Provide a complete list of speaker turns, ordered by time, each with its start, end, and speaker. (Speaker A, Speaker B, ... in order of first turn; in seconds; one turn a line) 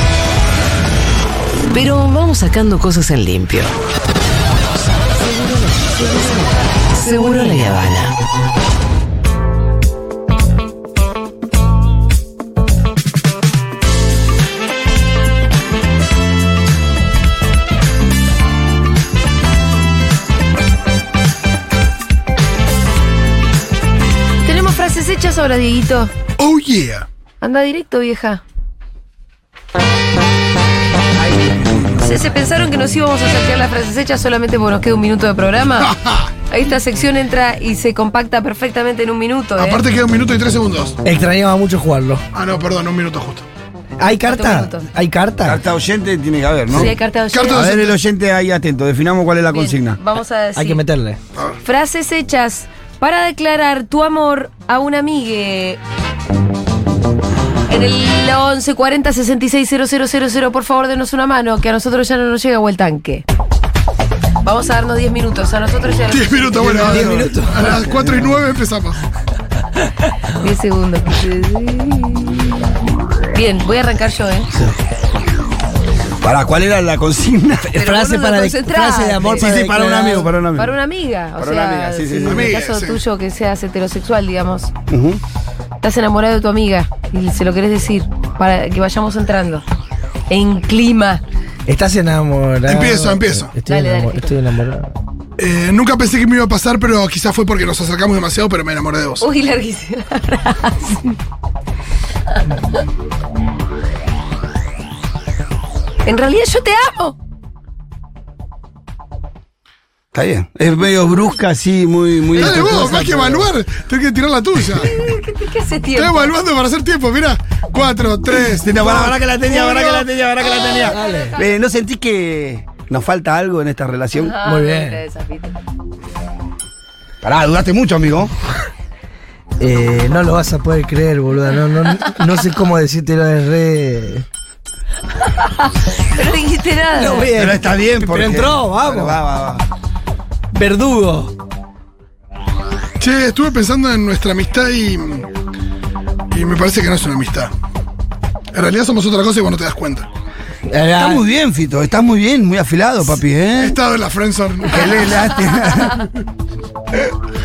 Speaker A: 1.7-3.8
Speaker A: 4.7-8.2
Speaker B: 24.4-26.1
Speaker C: 26.4-27.1
Speaker B: 27.4-28.4
Speaker B: 32.0-35.9
Speaker C: 35.8-36.3
Speaker B: 36.5-39.8
Speaker C: 39.6-41.0
Speaker D: 41.0-42.2
Speaker C: 42.3-43.5
Speaker D: 44.0-45.6
Speaker B: 44.3-44.9
Speaker E: 45.4-46.9
Speaker B: 46.7-47.7
Speaker C: 47.3-48.0
Speaker E: 47.5-50.0
Speaker B: 49.5-50.8
Speaker D: 50.5-51.2
Speaker B: 51.6-55.8
Speaker B: 57.7-63.2
Speaker B: 64.4-67.1
Speaker C: 66.1-69.0
Speaker D: 66.6-67.9
Speaker E: 66.7-68.3
Speaker B: 70.3-72.5
Speaker B: 73.3-74.5
Speaker E: 76.2-77.7
Speaker D: 77.6-80.3
Speaker B: 77.8-79.5
Speaker E: 79.3-80.8
Speaker B: 80.6-84.7
Speaker E: 81.4-82.6
Speaker C: 82.3-83.0
Speaker E: 84.9-85.2
Speaker B: 85.8-89.7
Speaker B: 90.3-91.2
Speaker D: 91.7-94.9
Speaker C: 92.7-93.5
Speaker B: 93.7-94.4
Speaker C: 95.4-99.3
Speaker B: 99.2-101.2
Speaker B: 106.0-107.2
Speaker E: 110.1-113.5
Speaker C: 112.3-115.0
Speaker B: 114.8-116.3
Speaker C: 116.0-120.1
Speaker E: 118.3-124.3
Speaker B: 120.4-121.5
Speaker D: 120.8-121.4
Speaker B: 124.2-125.6
Speaker D: 124.4-125.0
Speaker E: 127.2-128.3
Speaker D: 129.6-134.2
Speaker B: 135.3-137.3
Speaker D: 136.9-139.2
Speaker E: 137.3-139.7
Speaker D: 140.5-141.3
Speaker C: 143.0-145.3
Speaker C: 146.3-147.5
Speaker C: 148.5-150.1
Speaker D: 150.7-151.3
Speaker E: 150.9-153.8
Speaker C: 153.5-155.2
Speaker E: 154.7-156.1